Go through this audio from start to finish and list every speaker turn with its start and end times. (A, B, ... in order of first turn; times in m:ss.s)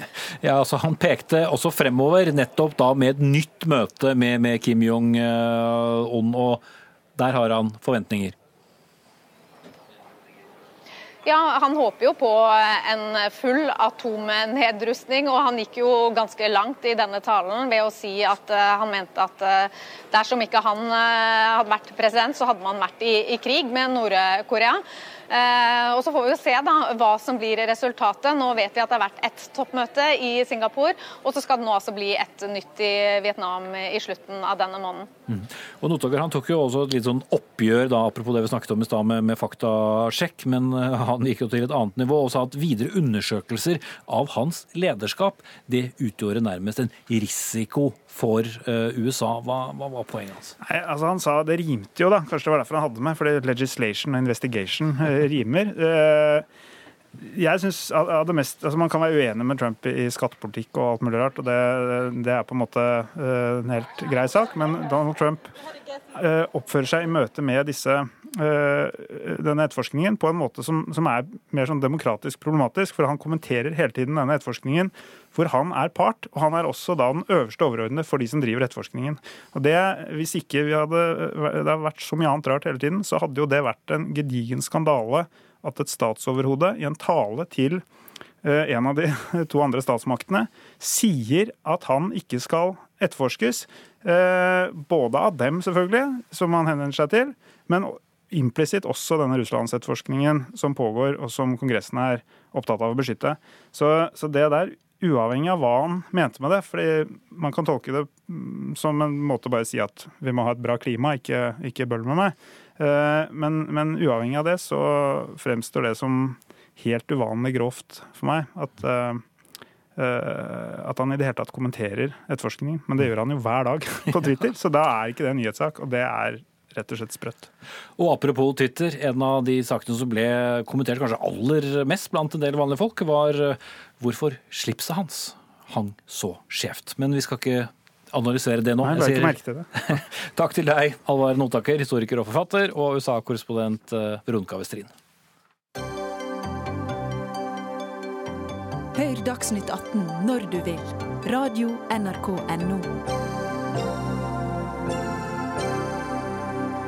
0:00.4-0:06.6 A
0:07.2-0:08.3 A
0:11.2-0:35.1 B
0:35.3-0:50.6 A
0:50.6-0:56.4 C
0:57.2-1:05.6 C
1:06.1-1:27.8 C
1:28.4-1:59.2 C
2:00.0-2:07.5 C
2:08.0-2:24.9 A
2:18.8-2:19.7 C
2:28.9-2:33.0 D